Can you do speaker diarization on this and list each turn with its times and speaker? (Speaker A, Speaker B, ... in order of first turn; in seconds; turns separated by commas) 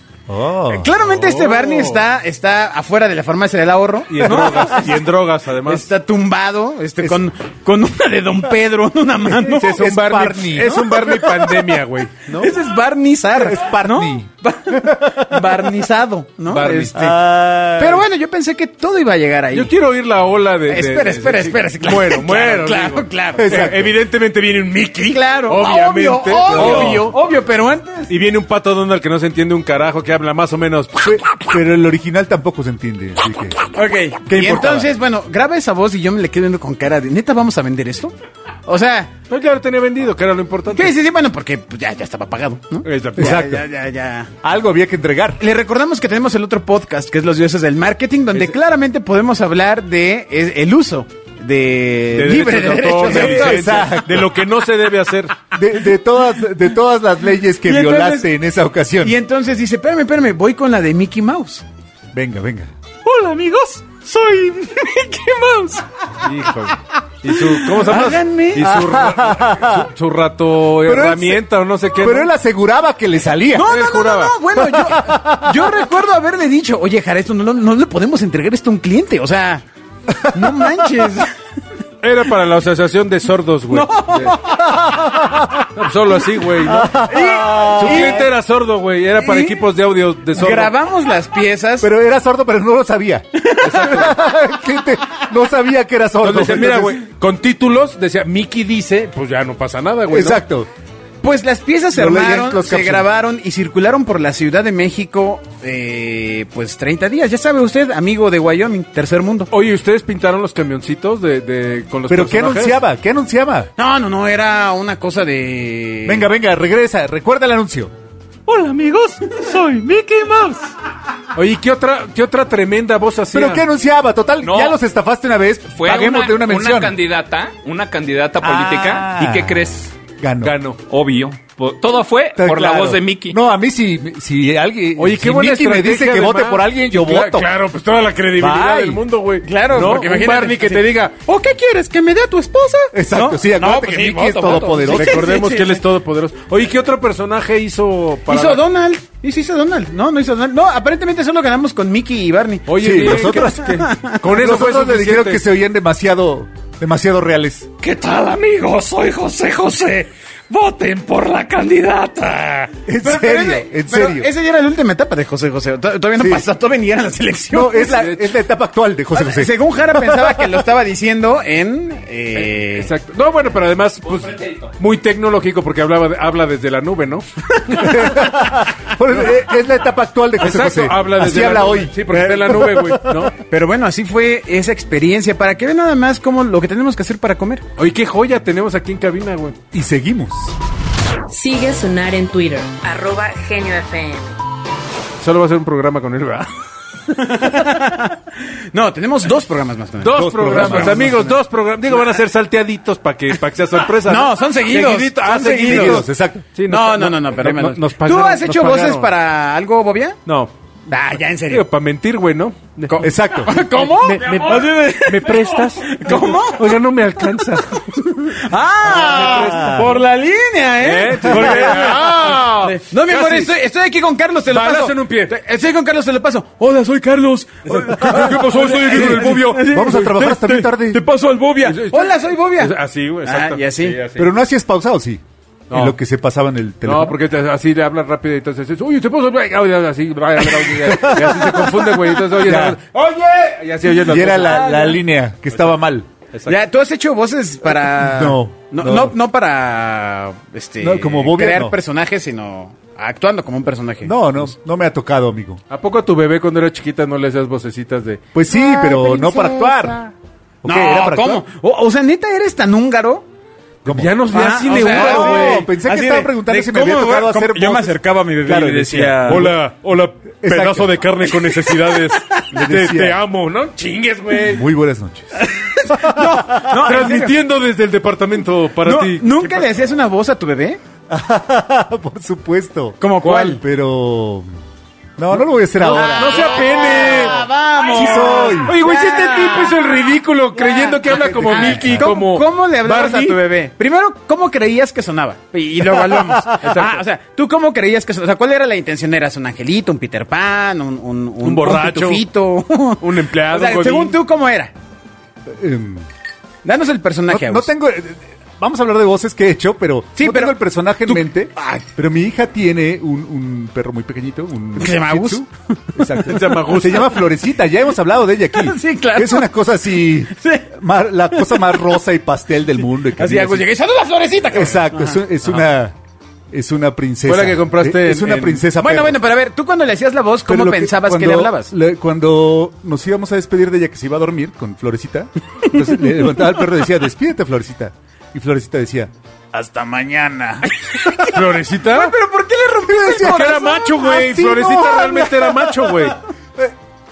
Speaker A: 0.3-0.9, Speaker B: 0.7-5.1, Speaker C: 1.0-2.0, Speaker C: 4.1-5.9, Speaker A: 4.2-4.5, Speaker B: 5.7-9.9, Speaker A: 7.0-7.2, Speaker C: 9.4-12.5, Speaker A: 9.5-10.9, Speaker B: 10.6-11.8, Speaker B: 12.3-17.2, Speaker A: 13.3-15.1, Speaker C: 16.5-16.9, Speaker A: 16.9-18.0, Speaker B: 17.7-19.7, Speaker C: 19.5-27.2, Speaker B: 20.7-23.8, Speaker A: 23.4-23.9, Speaker B: 25.1-28.1, Speaker A: 26.5-27.1, Speaker C: 28.1-31.1, Speaker A: 31.0-33.7, Speaker B: 33.7-38.1, Speaker A: 34.2-34.9, Speaker B: 38.6-39.1, Speaker C: 39.3-40.9, Speaker B: 40.7-44.3, Speaker C: 42.8-43.4, Speaker A: 43.2-43.6, Speaker A: 44.4-45.4, Speaker B: 45.4-53.9, Speaker C: 52.1-55.4, Speaker A: 53.0-54.3, Speaker A: 55.5-59.1, Speaker B: 57.6-58.3, Speaker B: 59.0-61.6, Speaker A: 62.1-62.7, Speaker D: 63.0-64.7, Speaker D: 65.2-65.5, Speaker C: 66.2-72.3, Speaker B: 67.7-68.7, Speaker A: 68.6-69.9, Speaker A: 70.8-71.4, Speaker A: 72.0-73.7, Speaker B: 73.5-79.6, Speaker C: 73.7-74.4, Speaker A: 74.6-75.7, Speaker A: 80.1-80.5, Speaker B: 80.2-81.3, Speaker C: 82.0-84.4, Speaker B: 83.7-85.4, Speaker A: 84.8-85.7, Speaker C: 85.7-86.9, Speaker A: 86.6-88.3, Speaker B: 86.8-88.3, Speaker C: 87.8-90.7, Speaker B: 89.2-89.7, Speaker B: 90.3-91.9, Speaker A: 91.8-97.0, Speaker B: 93.3-94.2, Speaker C: 93.6-94.1, Speaker C: 96.2-100.4, Speaker A: 100.1-100.7, Speaker B: 101.2-109.5, Speaker A: 101.9-103.1, Speaker C: 109.5-112.8, Speaker A: 112.1-113.7, Speaker B: 113.8-116.3, Speaker A: 116.0-117.9, Speaker D: 118.5-120.7, Speaker C: 121.3-123.7, Speaker A: 123.3-126.9, Speaker D: 124.4-124.8, Speaker D: 125.7-129.9, Speaker A: 128.4-129.7, Speaker A: 130.2-130.6, Speaker C: 130.4-130.8, Speaker D: 130.9-133.4, Speaker A: 132.3-137.5, Speaker C: 135.0-141.1, Speaker A: 138.4-139.0, Speaker B: 139.4-145.8, Speaker A: 142.9-145.3, Speaker C: 144.8-148.6, Speaker B: 148.2-154.2, Speaker C: 152.7-155.4, Speaker A: 152.8-157.7, Speaker D: 157.8-162.7, Speaker A: 162.8-164.3, Speaker B: 163.0-167.9, Speaker A: 166.2-166.4, Speaker A: 167.5-170.6, Speaker C: 167.9-168.3, Speaker B: 169.1-172.9, Speaker C: 172.4-177.2, Speaker A: 177.7-181.9, Speaker C: 180.4-183.3, Speaker B: 182.1-187.7, Speaker A: 182.5-183.3, Speaker C: 187.8-189.6, Speaker A: 189.7-190.5, Speaker E: 191.3-194.4, Speaker C: 195.2-196.5, Speaker B: 197.1-201.1, Speaker C: 200.0-209.1, Speaker A: 200.1-201.4, Speaker B: 203.9-206.1, Speaker A: 205.6-206.4, Speaker B: 206.7-210.2, Speaker C: 210.2-210.5, Speaker B: 210.9-211.7, Speaker C: 211.5-213.0, Speaker B: 212.8-216.8, Speaker A: 213.0-213.6, Speaker C: 213.7-217.8, Speaker B: 217.8-234.0, Speaker C: 218.8-219.9, Speaker A: 218.9-219.9, Speaker C: 220.8-223.5, Speaker A: 221.3-221.9, Speaker C: 224.5-225.3, Speaker C: 227.7-230.1, Speaker A: 228.8-231.0, Speaker C: 231.6-234.2, Speaker A: 234.1-237.2, Speaker C: 235.7-236.0, Speaker C: 236.8-245.0, Speaker A: 240.6-242.8, Speaker A: 243.9-246.1, Speaker C: 246.3-246.6, Speaker B: 246.5-254.5, Speaker A: 247.8-249.2, Speaker A: 250.8-251.8, Speaker A: 254.0-255.6, Speaker C: 255.7-258.2, Speaker A: 258.3-260.1, Speaker B: 258.5-260.1, Speaker A: 260.6-261.4, Speaker B: 260.6-263.2, Speaker A: 263.8-269.6, Speaker C: 263.9-265.6, Speaker B: 264.3-269.5, Speaker C: 268.9-274.6, Speaker A: 270.4-270.9, Speaker B: 271.5-272.2, Speaker A: 272.5-273.2, Speaker A: 274.4-276.9, Speaker B: 275.4-277.3, Speaker C: 276.7-279.6, Speaker B: 278.8-280.8, Speaker A: 281.1-284.5, Speaker B: 283.0-283.6, Speaker C: 283.2-283.5, Speaker A: 285.2-288.8, Speaker C: 285.9-287.5, Speaker B: 285.9-290.0, Speaker C: 288.0-293.4, Speaker B: 290.6-304.7, Speaker A: 291.2-292.1, Speaker A: 296.1-296.4, Speaker C: 296.6-297.0, Speaker C: 301.4-302.2, Speaker C: 303.0-304.2, Speaker A: 305.5-306.1, Speaker B: 306.6-307.7, Speaker A: 307.3-323.7, Speaker B: 310.1-310.5, Speaker B: 311.1-311.8, Speaker B: 314.8-315.5, Speaker B: 316.2-316.7, Speaker C: 316.3-317.0, Speaker B: 318.5-319.5, Speaker B: 320.3-320.7, Speaker B: 321.3-321.8, Speaker B: 323.1-325.2, Speaker A: 324.5-325.9, Speaker A: 326.5-329.2, Speaker C: 327.3-328.7, Speaker B: 328.8-331.7, Speaker A: 330.5-340.7, Speaker B: 340.7-344.0, Speaker C: 341.3-342.1, Speaker A: 342.9-346.7, Speaker C: 343.2-346.1